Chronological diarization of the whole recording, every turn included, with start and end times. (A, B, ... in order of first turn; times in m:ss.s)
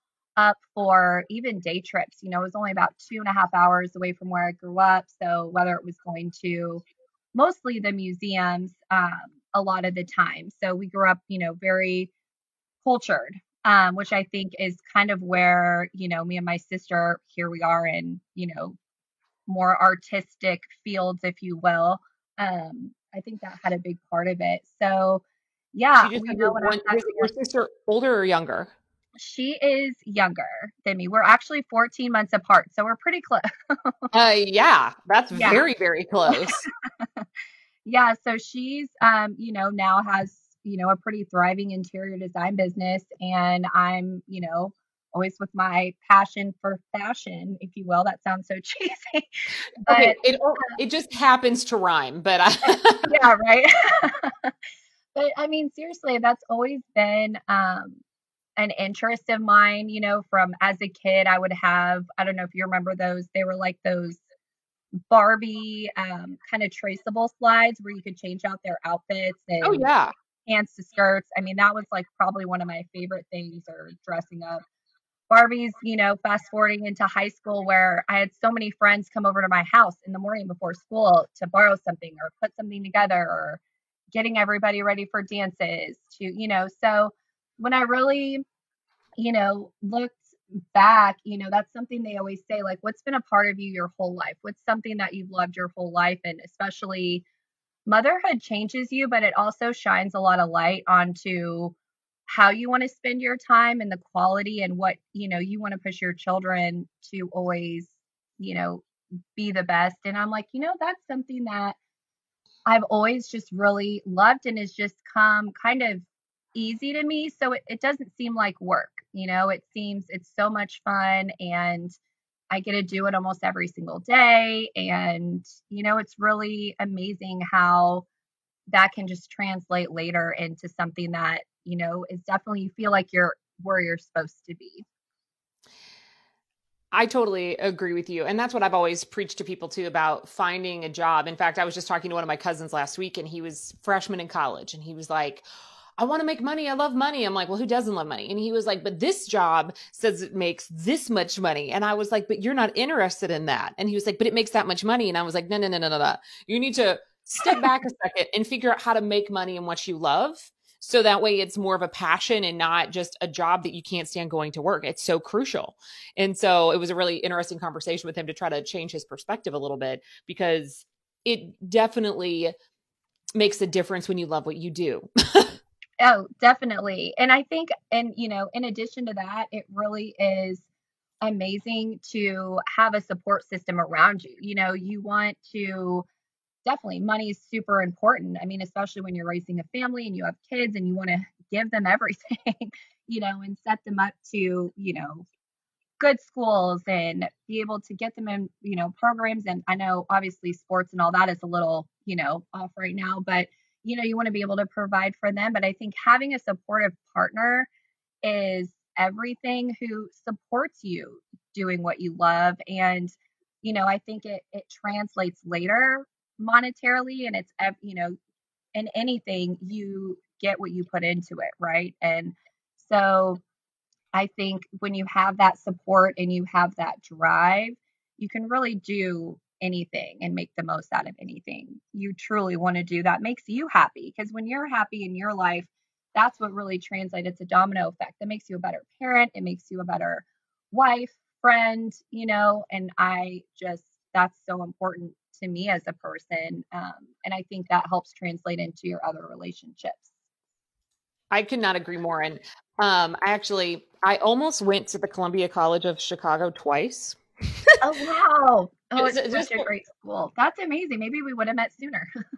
0:00.4-0:12.1 A
0:12.8-0:18.8 A
0:19.5-0:25.2 A
0:25.7-0:27.3 A
0:26.0-0:28.7 B
0:29.2-0:34.1 A
0:34.1-0:36.6 B
0:35.3-0:35.6 A
0:36.3-0:36.7 A
0:37.8-0:49.3 A
0:49.9-0:50.7 A
0:49.9-0:53.1 B
0:53.0-0:54.5 A
0:55.2-0:58.0 A
0:58.6-1:04.2 A
1:05.1-1:09.9 A
1:09.6-1:10.1 B
1:10.5-1:14.6 A
1:15.3-1:23.6 A
1:24.1-1:28.4 A
1:29.2-1:37.2 A
1:37.9-1:41.8 A
1:42.3-1:51.8 A
1:52.7-2:02.0 A
2:02.5-2:08.1 A
2:08.7-2:14.8 A
2:16.9-2:25.4 B
2:26.0-2:52.5 B
2:53.4-2:55.5 B
2:56.0-3:00.7 A
3:01.2-3:06.1 A
3:06.6-3:15.3 A
3:16.0-3:27.7 A
3:28.2-3:33.1 A
3:33.6-3:38.2 A
3:38.8-3:43.4 A
3:44.1-4:10.1 A
4:11.3-4:17.2 B
4:17.8-4:22.1 A
4:19.0-4:19.7 B